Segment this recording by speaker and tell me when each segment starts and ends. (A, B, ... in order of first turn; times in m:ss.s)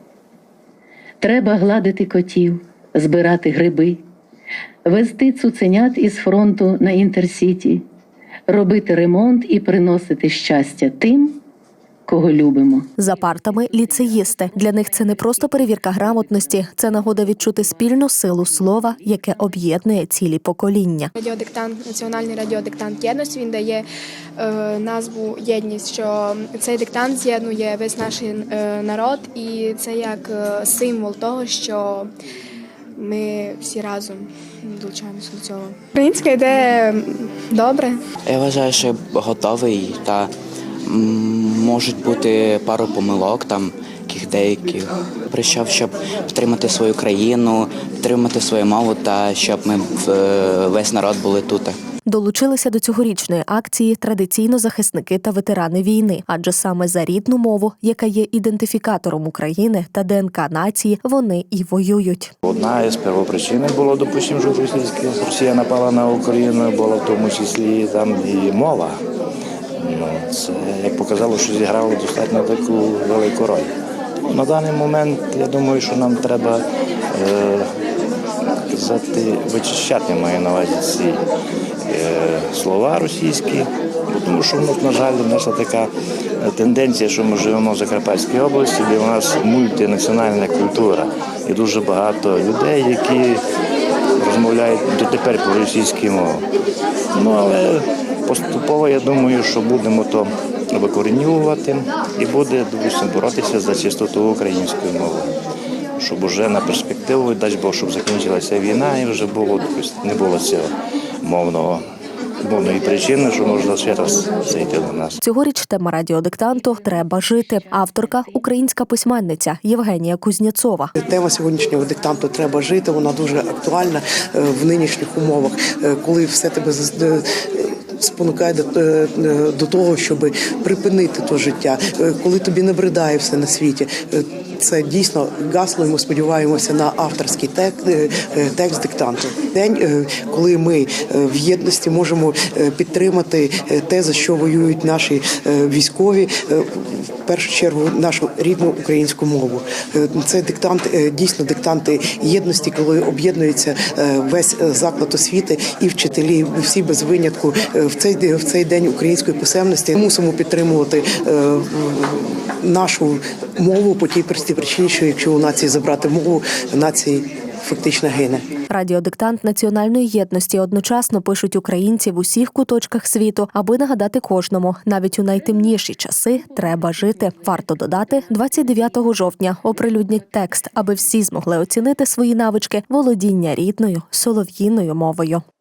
0:01.2-0:03.9 A
0:04.9-0:07.7 A
0:08.5-0:11.3 A
0:12.1-0:12.9 A
0:13.0-0:21.1 B
0:21.1-0:32.1 C
0:32.9-0:38.0 C
0:38.3-0:40.3 D
0:40.8-0:51.8 D
0:52.1-1:02.3 B
1:02.4-1:09.0 E
1:09.8-1:13.7 E
1:14.2-1:17.7 E
1:18.7-1:21.2 E
1:21.9-1:23.7 E
1:24.2-1:33.4 E
1:34.2-1:36.4 E
1:37.1-1:45.3 E
1:46.0-1:50.7 E
1:51.2-1:51.8 E
1:52.4-1:55.2 E
1:55.2-2:00.9 B
2:00.9-2:48.4 F
2:48.7-3:05.4 B
2:56.3-2:59.1 A
2:59.9-3:00.6 A